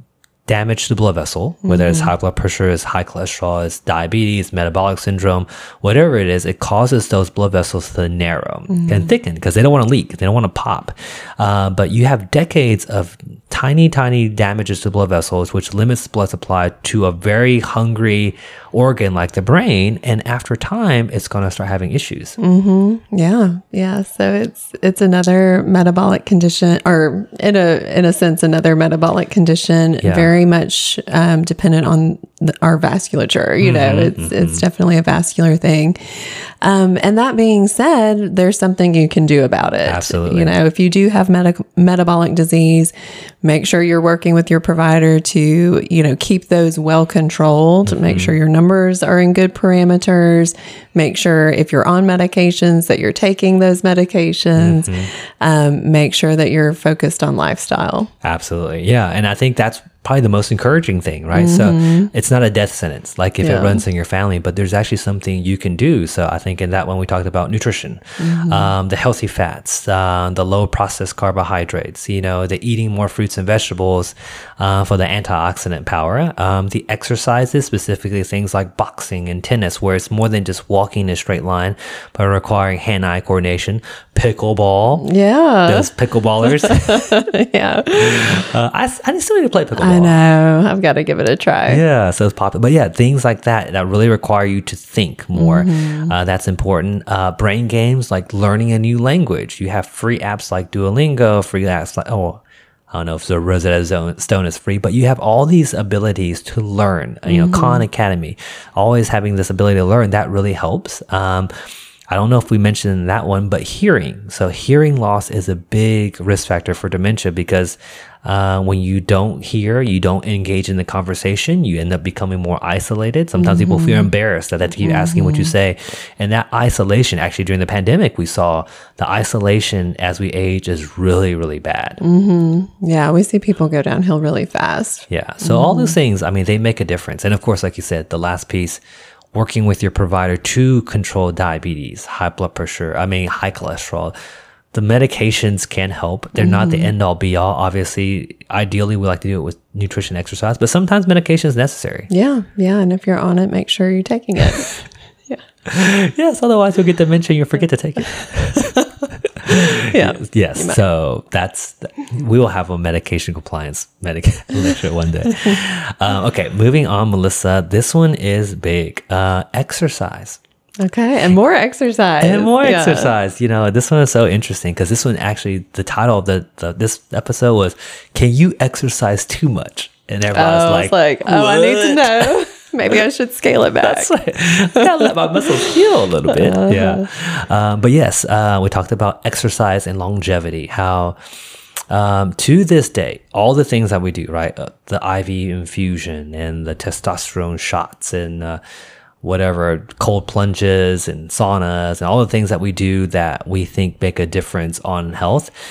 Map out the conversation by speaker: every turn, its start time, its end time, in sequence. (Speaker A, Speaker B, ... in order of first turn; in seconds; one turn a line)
Speaker A: 0.5-22.4
Speaker B: 1.6-2.1
Speaker B: 8.7-9.1
Speaker B: 22.4-58.1
Speaker A: 30.0-30.3
Speaker A: 33.6-34.6
Speaker A: 39.9-40.5
Speaker A: 47.9-48.4
Speaker A: 54.6-55.1
Speaker A: 58.2-85.1
Speaker B: 61.3-62.1
Speaker B: 63.4-63.8
Speaker B: 68.2-68.7
Speaker B: 85.0-85.9
Speaker A: 85.7-87.2
Speaker B: 86.4-88.4
Speaker A: 87.9-90.2
Speaker B: 89.8-91.8
Speaker A: 91.7-111.5
Speaker B: 95.3-96.1
Speaker B: 107.2-107.9
Speaker A: 112.1-132.0
Speaker B: 123.4-124.1
Speaker B: 124.8-125.5
Speaker B: 132.0-135.9
Speaker A: 135.1-138.8
Speaker A: 139.3-144.1
Speaker A: 144.7-152.1
Speaker B: 146.4-146.9
Speaker B: 152.1-154.8
Speaker A: 155.7-170.4
Speaker B: 159.5-160.8
Speaker B: 165.3-165.6
Speaker B: 170.8-173.1
Speaker A: 172.2-182.3
Speaker B: 180.3-184.1
Speaker A: 183.8-191.2
Speaker B: 184.8-185.5
Speaker B: 186.3-187.1
Speaker A: 191.9-198.6
Speaker A: 199.2-205.5